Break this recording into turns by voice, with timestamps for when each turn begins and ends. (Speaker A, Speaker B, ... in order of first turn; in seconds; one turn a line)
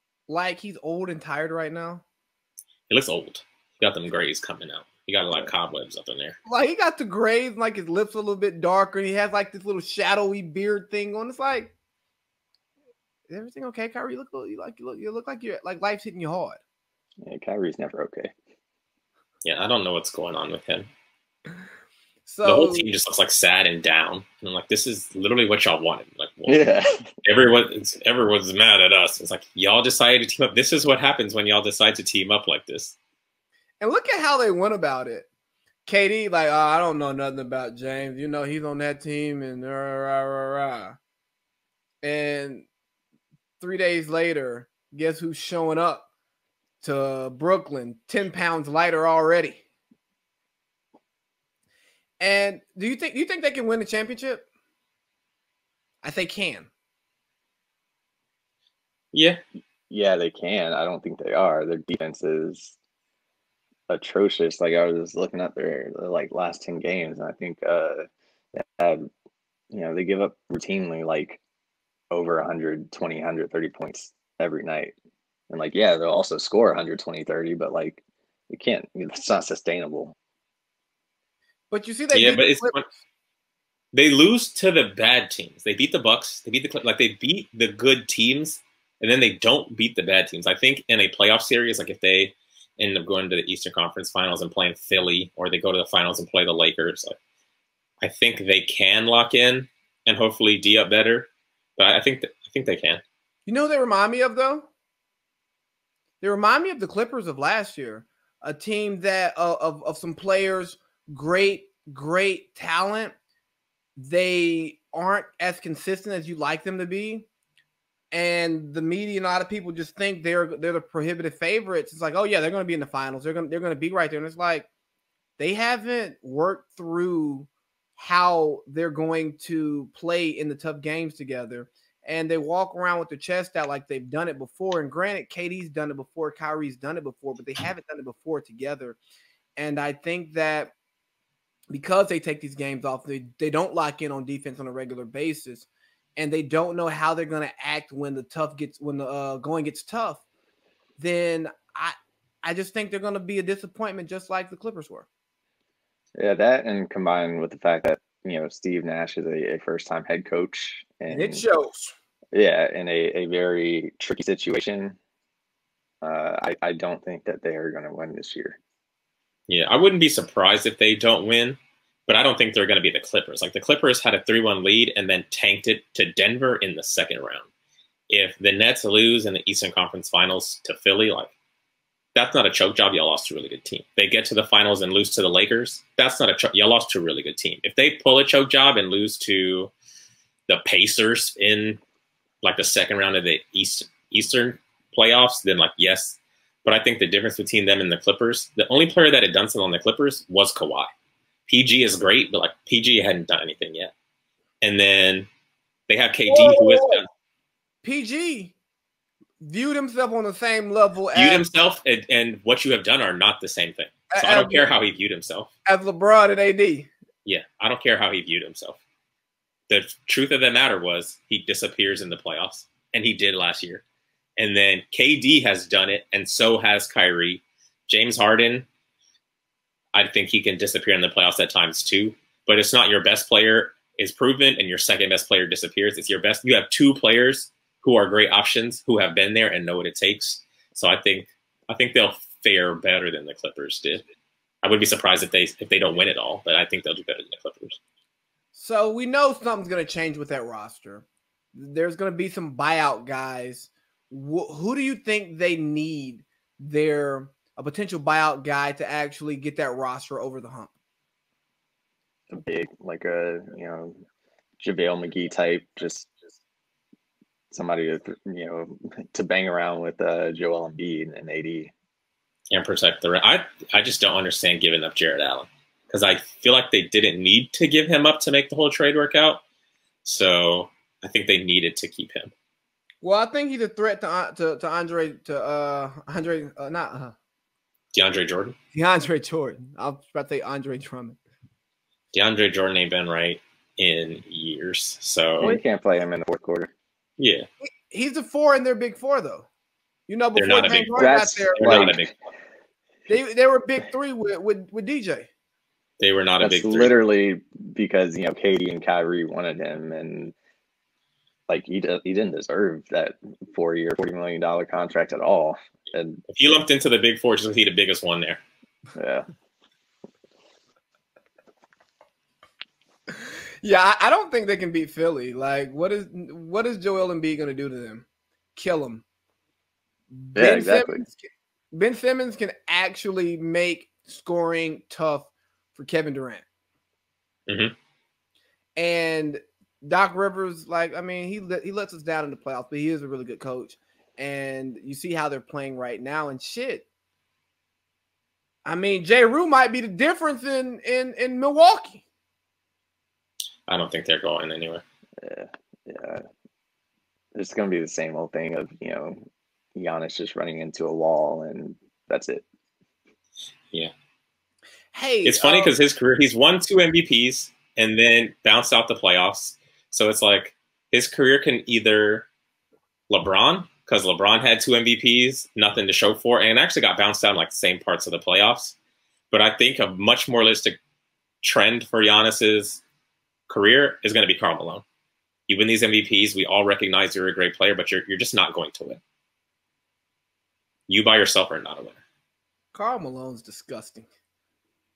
Speaker A: 0.3-2.0
Speaker B: 2.9-6.4
Speaker A: 6.5-11.7
Speaker A: 13.3-16.6
Speaker C: 17.2-18.3
Speaker B: 19.4-20.9
Speaker A: 22.2-22.9
Speaker B: 22.4-26.6
Speaker C: 26.4-27.0
Speaker B: 27.2-33.0
Speaker A: 33.8-35.3
Speaker A: 35.9-41.0
Speaker A: 42.0-42.7
Speaker A: 43.6-46.1
Speaker A: 46.8-49.6
Speaker A: 52.2-54.4
Speaker A: 56.0-56.7
Speaker B: 59.1-59.4
Speaker C: 59.9-62.8
Speaker C: 63.9-68.0
Speaker C: 68.5-69.0
Speaker C: 69.7-71.4
Speaker C: 72.1-74.9
Speaker C: 75.5-80.1
Speaker A: 81.7-82.8
Speaker B: 82.1-82.8
Speaker B: 83.9-97.2
Speaker B: 98.0-103.0
Speaker A: 103.5-104.7
Speaker A: 106.2-113.1
Speaker A: 114.0-117.3
Speaker A: 118.1-124.7
Speaker A: 125.4-139.0
Speaker A: 139.6-140.7
Speaker A: 141.7-150.2
Speaker A: 151.0-155.1
Speaker C: 156.2-161.4
Speaker A: 161.1-161.9
Speaker C: 162.3-165.0
Speaker C: 166.0-168.6
Speaker B: 169.5-177.5
Speaker B: 178.1-181.3
Speaker B: 182.1-189.7
Speaker B: 190.5-191.8
Speaker B: 192.4-200.9
Speaker B: 201.5-203.9
Speaker B: 204.6-205.3
Speaker B: 205.9-207.1
Speaker A: 206.3-207.0
Speaker A: 207.8-208.5
Speaker A: 209.4-211.4
Speaker B: 211.1-215.5
Speaker A: 214.1-214.7
Speaker A: 215.7-216.9
Speaker B: 217.2-218.8
Speaker B: 219.7-223.8
Speaker B: 224.4-228.7
Speaker B: 229.9-244.0
Speaker B: 244.6-247.8
Speaker A: 248.5-260.7
Speaker C: 262.3-264.0
Speaker C: 264.6-266.1
Speaker C: 267.5-271.7
Speaker B: 272.5-279.4
Speaker B: 280.0-282.3
Speaker A: 283.0-287.1
Speaker B: 287.9-288.5
Speaker A: 288.7-291.2
Speaker B: 292.1-295.6
Speaker C: 295.4-296.7
Speaker B: 297.2-297.4
Speaker A: 297.6-299.5
Speaker A: 300.1-301.9
Speaker B: 300.4-302.1
Speaker C: 301.0-302.0
Speaker A: 303.1-305.3
Speaker B: 306.0-306.9
Speaker C: 306.4-310.3
Speaker C: 311.5-316.2
Speaker B: 316.3-318.4
Speaker C: 318.9-319.3
Speaker A: 323.2-329.0
Speaker A: 330.1-336.4
Speaker C: 330.4-331.0
Speaker B: 337.5-337.7
Speaker A: 338.8-346.9
Speaker A: 348.6-352.0
Speaker B: 353.7-354.8
Speaker C: 355.2-356.2
Speaker C: 357.3-359.2
Speaker C: 359.7-362.4
Speaker A: 364.9-365.7
Speaker B: 365.2-372.3
Speaker B: 373.1-378.8
Speaker B: 379.3-380.8
Speaker B: 381.4-382.8
Speaker B: 383.5-384.8
Speaker B: 385.5-389.0
Speaker B: 390.9-392.0
Speaker A: 392.7-394.1